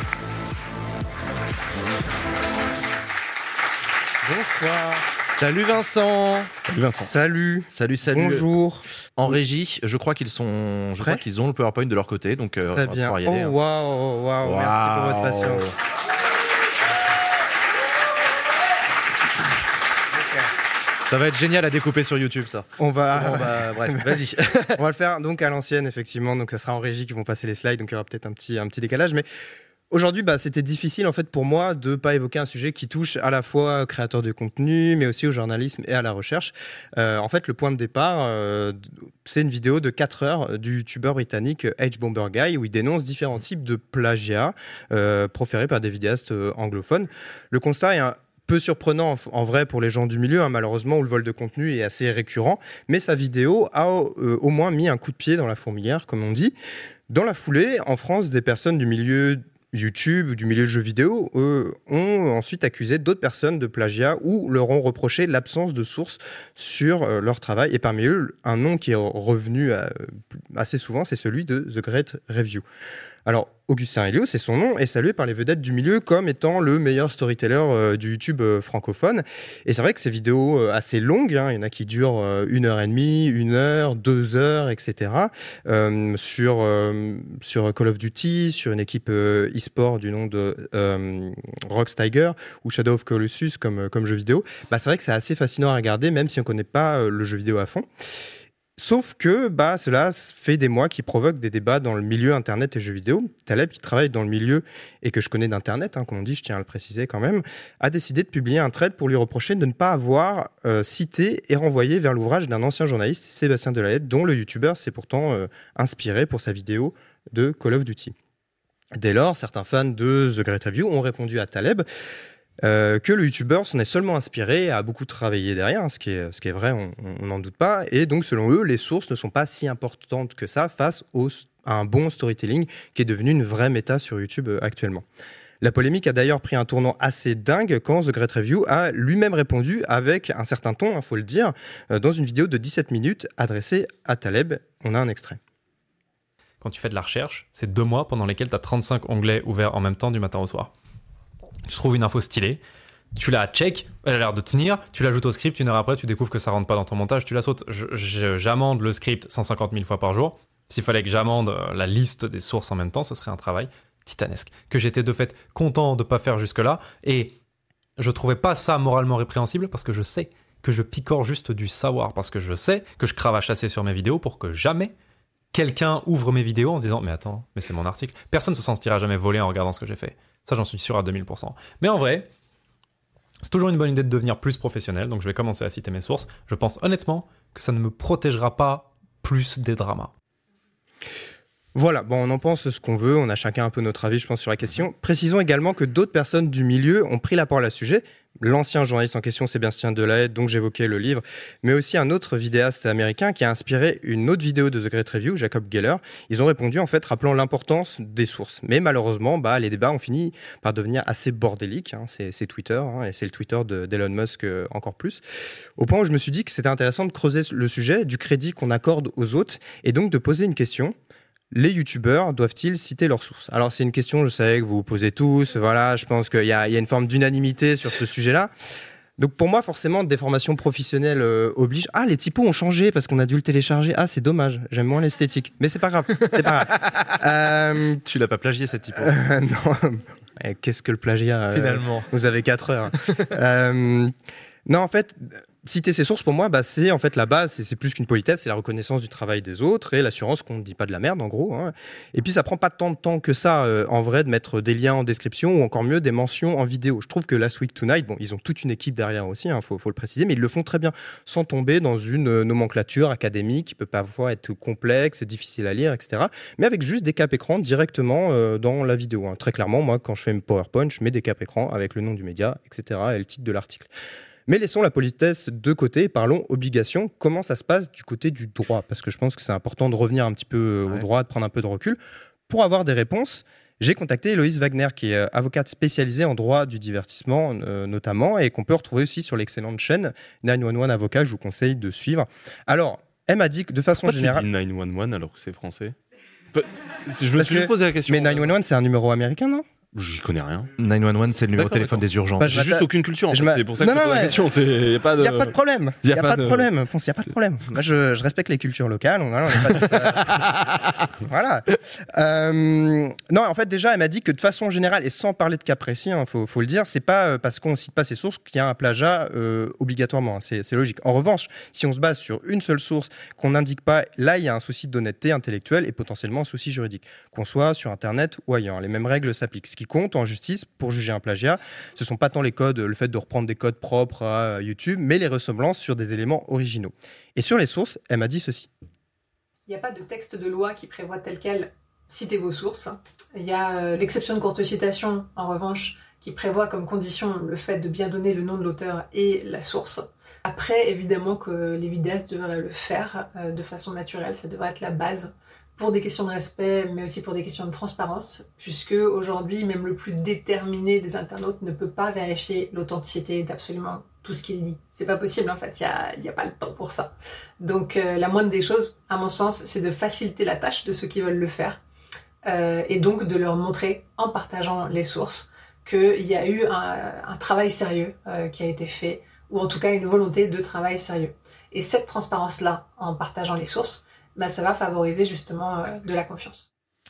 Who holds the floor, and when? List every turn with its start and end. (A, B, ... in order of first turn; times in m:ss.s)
0:04.2-0:05.0 A
0:05.2-0:06.5 B
0:06.8-0:09.4 A
0:07.7-0:08.5 B
0:09.2-0:13.6 B
0:12.7-0:15.7 A
0:14.4-0:15.7 B
0:21.0-0:24.8 B
0:22.8-0:24.2 A
0:24.8-0:29.2 A
0:29.9-0:56.5 A
0:57.1-1:12.6 A
1:13.3-1:37.9 A
1:38.8-1:58.1 A
1:58.9-2:01.8 A
2:02.6-2:15.0 A
2:15.6-2:25.4 A
2:26.6-2:30.7 C
2:31.7-2:32.6 C
2:33.2-2:47.3 C
2:48.0-2:54.9 C
2:55.5-3:02.3 C
3:03.4-3:10.1 C
3:11.8-3:35.2 A
3:35.8-3:40.9 A
3:41.5-3:48.5 A
3:49.2-3:58.0 A
3:58.0-3:59.1 B
3:59.0-4:04.1 A
4:01.5-4:02.1 B
4:04.7-4:33.9 A
4:34.5-4:54.5 A
4:54.0-4:56.0 D
4:56.5-4:58.5 D
4:57.3-4:59.6 A
4:59.9-5:00.7 D
5:00.8-5:02.6 B
5:01.6-5:06.7 D
5:02.4-5:04.4 A
5:05.2-5:10.3 A
5:11.2-5:38.7 A
5:39.7-6:11.8 E
6:12.4-6:26.7 E